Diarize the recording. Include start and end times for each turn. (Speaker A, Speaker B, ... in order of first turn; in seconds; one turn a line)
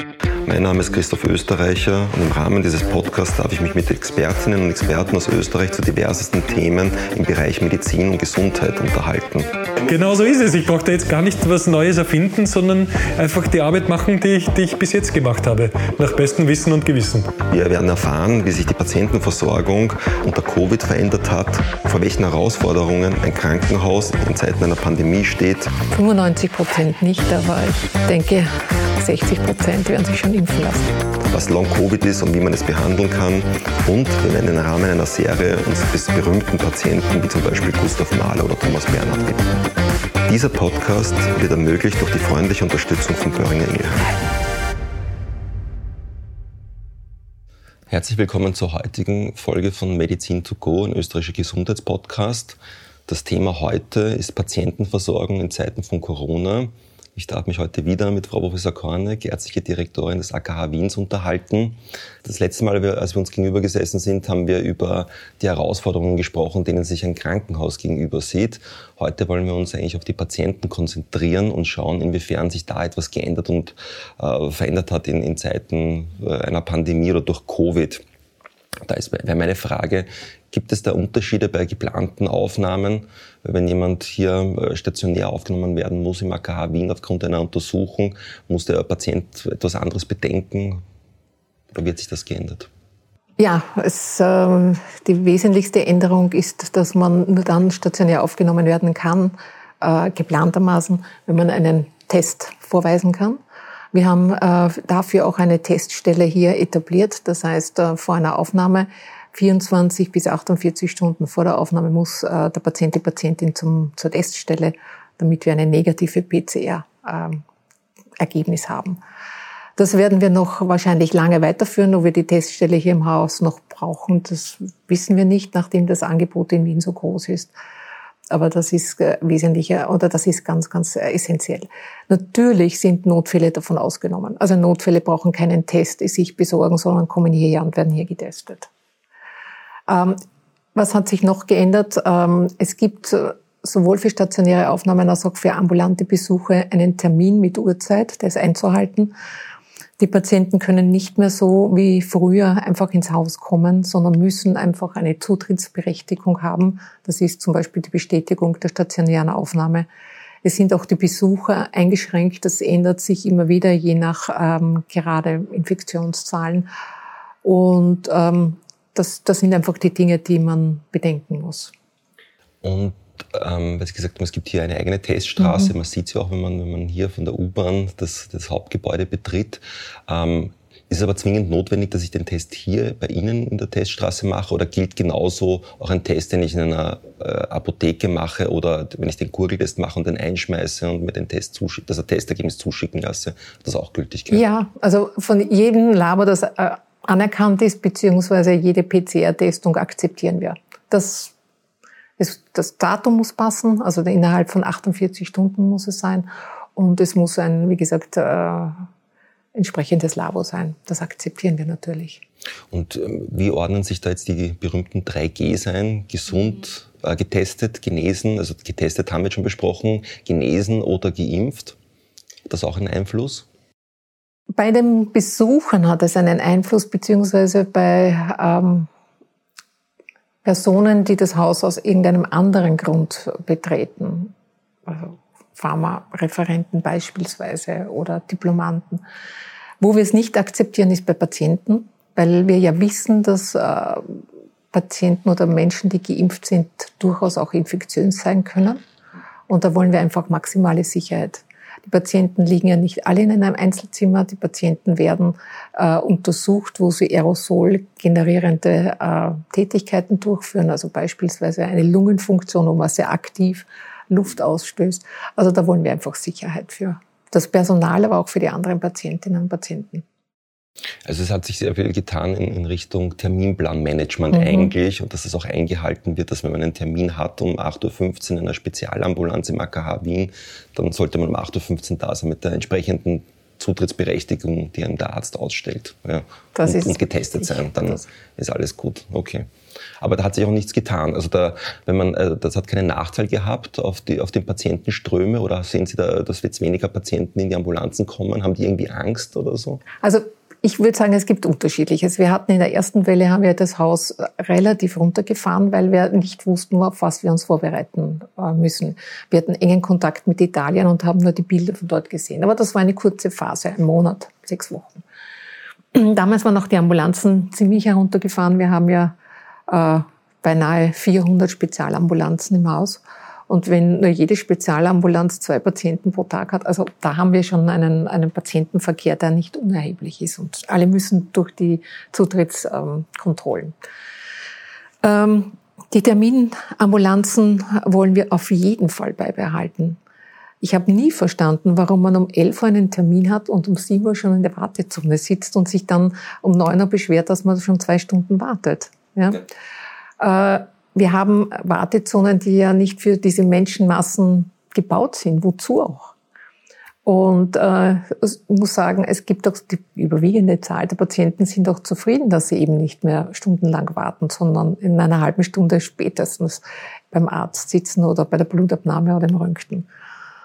Speaker A: 0.5-9.5
Speaker B: 9.9-17.3
Speaker A: 17.5-25.8
Speaker C: 25.9-31.0
Speaker A: 31.3-39.5
Speaker A: 40.3-44.0
Speaker A: 47.9-78.0
Speaker A: 78.9-90.8
Speaker A: 91.7-92.7
Speaker C: 93.4-103.4
Speaker C: 103.9-117.4
Speaker C: 118.2-119.0
Speaker C: 119.8-127.5
Speaker C: 128.3-138.7
Speaker C: 139.9-140.2
Speaker C: 140.7-149.1
Speaker C: 150.0-159.9
Speaker C: 160.4-166.7
Speaker C: 167.4-171.7
Speaker A: 172.6-194.4
Speaker C: 175.4-175.7
Speaker C: 194.3-201.3
Speaker C: 202.2-208.8
Speaker C: 209.5-212.2
Speaker A: 212.7-221.8
Speaker A: 222.5-223.4
Speaker C: 224.6-228.9
Speaker C: 230.4-234.3
Speaker C: 234.8-239.0
Speaker C: 239.8-248.8
Speaker C: 249.5-270.1
Speaker A: 271.1-289.5
Speaker C: 274.3-274.7
Speaker C: 286.6-288.1
Speaker A: 290.0-299.8
Speaker C: 300.0-315.0
Speaker C: 315.9-319.1
Speaker C: 319.7-333.7
Speaker C: 335.0-340.0
Speaker C: 340.6-349.4
Speaker C: 350.2-356.1
Speaker C: 357.0-369.9